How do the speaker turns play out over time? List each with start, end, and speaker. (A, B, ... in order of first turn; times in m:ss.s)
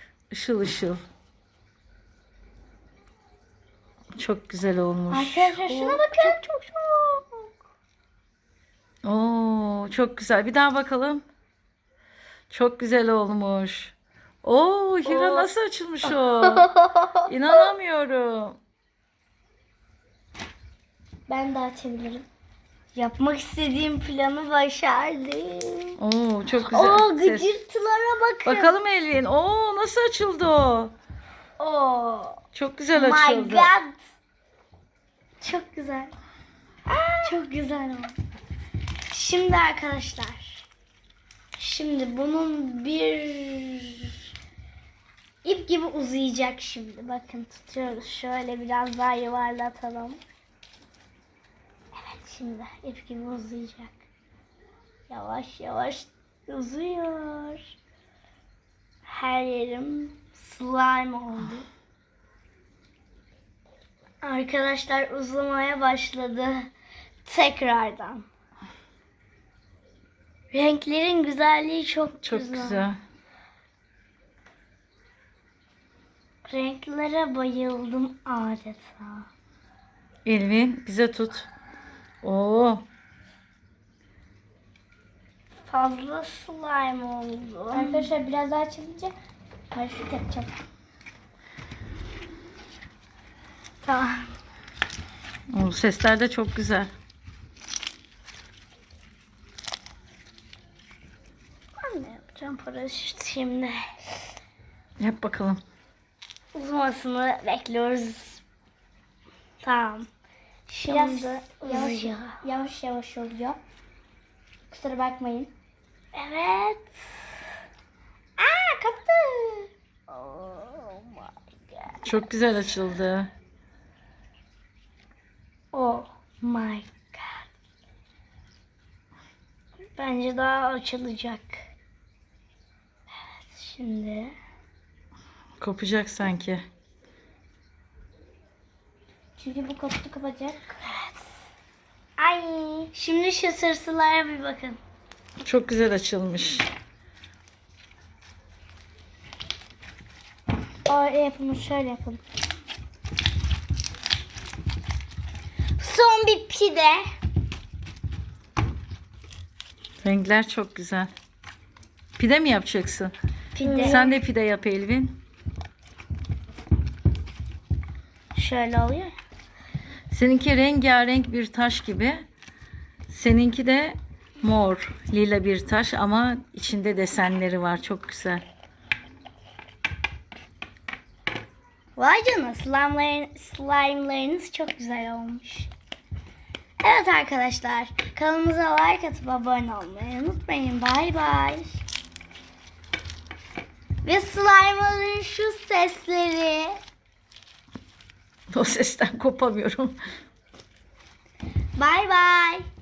0:00.3-0:01.0 A
0:04.2-0:05.6 A
0:05.1-0:06.4 B
0:05.6-0:07.2 C
0:09.0-0:11.2 A
0:12.5-0:16.7 A
0:17.2-0:18.6 A
0:21.3-0:22.3 B
0:23.0-0:26.0 C
0:26.0-0:27.5 A
0:26.6-0:28.7 C
0:28.4-0:30.9 A
0:31.6-0:32.4 C
0:32.5-0:33.7 A
0:32.9-0:34.0 C
0:35.4-0:36.1 C
0:36.9-0:37.2 B
0:37.2-0:38.2 C
0:39.1-0:40.7 C
0:41.6-0:44.2 C
0:45.4-0:50.2 C
0:51.9-0:54.1 C
0:55.1-0:57.7 C
0:59.1-1:01.7 C
1:04.2-1:06.7 C
1:07.2-1:08.3 C
1:10.5-1:12.9 C
1:12.2-1:13.0 A
1:16.5-1:19.3 C
1:20.2-1:21.5 A
1:22.2-1:22.8 A
1:25.7-1:28.1 C
1:27.7-1:29.1 B
1:29.7-1:30.6 B
1:33.8-1:34.4 C
1:35.5-1:36.9 A
1:41.8-1:43.9 C
1:45.0-1:45.6 A
1:46.5-1:48.4 C
1:49.6-1:50.1 C
1:50.7-1:52.4 C
1:50.9-1:53.6 B
1:54.7-1:55.5 B
1:56.1-1:57.0 C
1:58.4-1:59.0 C
1:58.6-1:59.6 B
2:00.1-2:02.0 C
2:02.0-2:03.3 A
2:05.8-2:07.5 C
2:10.0-2:11.6 C
2:13.4-2:14.3 C
2:15.6-2:16.6 A
2:19.4-2:20.8 B
2:20.9-2:21.1 C
2:22.2-2:24.8 C
2:25.4-2:26.7 A
2:30.9-2:32.2 B
2:35.8-2:37.0 C
2:40.0-2:41.1 A
2:42.2-2:43.1 A
2:43.6-2:44.1 C
2:43.6-2:44.1 B
2:43.8-2:45.2 A
2:48.3-2:49.1 C
2:50.1-2:52.2 A
2:53.1-2:58.4 A
3:02.0-3:05.7 C
3:06.8-3:11.8 C
3:14.0-3:16.8 C
3:18.5-3:20.0 A
3:21.8-3:22.6 C